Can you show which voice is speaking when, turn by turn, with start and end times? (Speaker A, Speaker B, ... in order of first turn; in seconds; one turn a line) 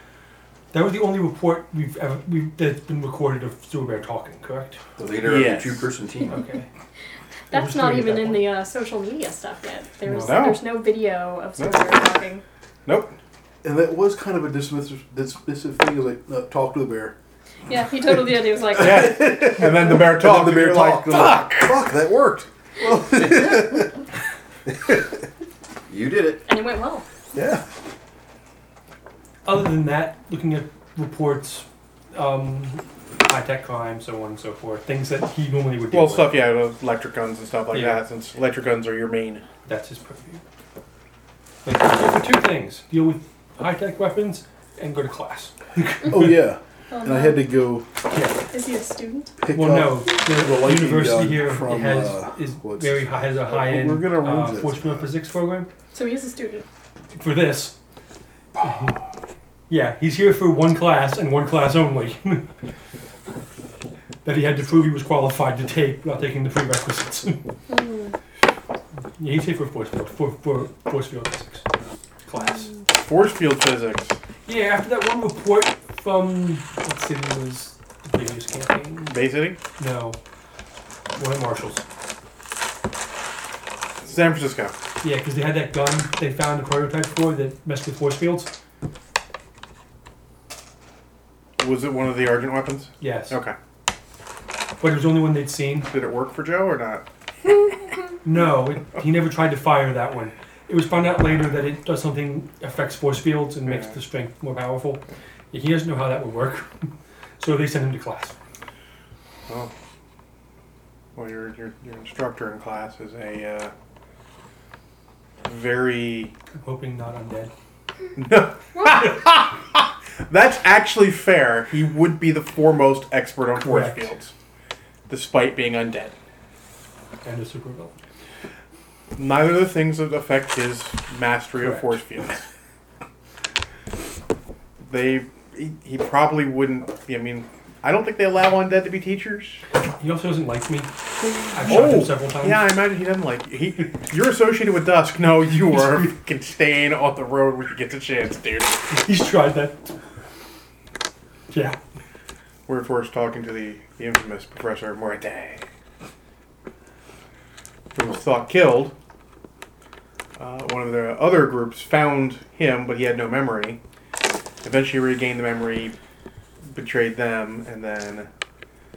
Speaker A: 0.7-4.8
Speaker B: 5.0-6.4
Speaker C: 5.2-5.9
Speaker A: 6.3-6.7
Speaker D: 7.5-12.4
Speaker A: 7.5-8.5
Speaker A: 10.1-10.5
Speaker C: 10.3-10.6
Speaker C: 11.6-12.0
Speaker C: 12.9-13.2
Speaker E: 13.6-17.2
Speaker D: 17.7-19.1
Speaker E: 18.5-24.1
Speaker C: 18.8-21.9
Speaker E: 24.8-25.1
Speaker B: 25.9-26.4
Speaker D: 26.5-27.1
Speaker E: 27.3-27.6
Speaker A: 29.4-36.4
Speaker C: 35.9-39.5
Speaker A: 37.7-38.0
Speaker A: 39.6-40.4
Speaker A: 41.6-46.4
Speaker E: 46.1-48.0
Speaker D: 46.9-47.5
Speaker A: 48.1-48.4
Speaker D: 48.5-49.4
Speaker E: 49.4-55.1
Speaker A: 49.5-55.7
Speaker D: 55.9-56.7
Speaker A: 57.1-57.8
Speaker A: 58.6-59.0
Speaker A: 59.7-62.5
Speaker A: 64.2-67.5
Speaker D: 67.7-68.2
Speaker A: 69.2-71.6
Speaker A: 72.3-72.7
Speaker C: 72.9-74.2
Speaker A: 74.5-79.2
Speaker C: 79.1-79.6
Speaker A: 79.8-80.2
Speaker A: 81.2-81.8
Speaker C: 84.0-84.7
Speaker A: 85.0-88.5
Speaker C: 91.6-93.5
Speaker A: 93.0-93.4
Speaker A: 94.8-95.9
Speaker C: 95.9-97.0
Speaker A: 98.2-106.9
Speaker C: 103.7-104.0
Speaker A: 107.4-108.3
Speaker C: 111.2-113.7
Speaker C: 115.4-116.3
Speaker A: 116.5-117.5
Speaker C: 118.2-124.3
Speaker D: 118.8-119.0
Speaker A: 123.6-124.1
Speaker C: 125.1-126.2
Speaker A: 127.2-127.9
Speaker C: 129.2-132.4
Speaker A: 131.6-131.9
Speaker C: 134.9-139.6
Speaker A: 140.0-140.9
Speaker A: 141.4-142.7
Speaker C: 141.7-148.8
Speaker A: 148.9-149.8
Speaker A: 151.5-151.8
Speaker C: 152.7-155.7
Speaker C: 157.9-158.9
Speaker C: 160.4-163.8
Speaker C: 164.6-165.9
Speaker C: 166.7-168.3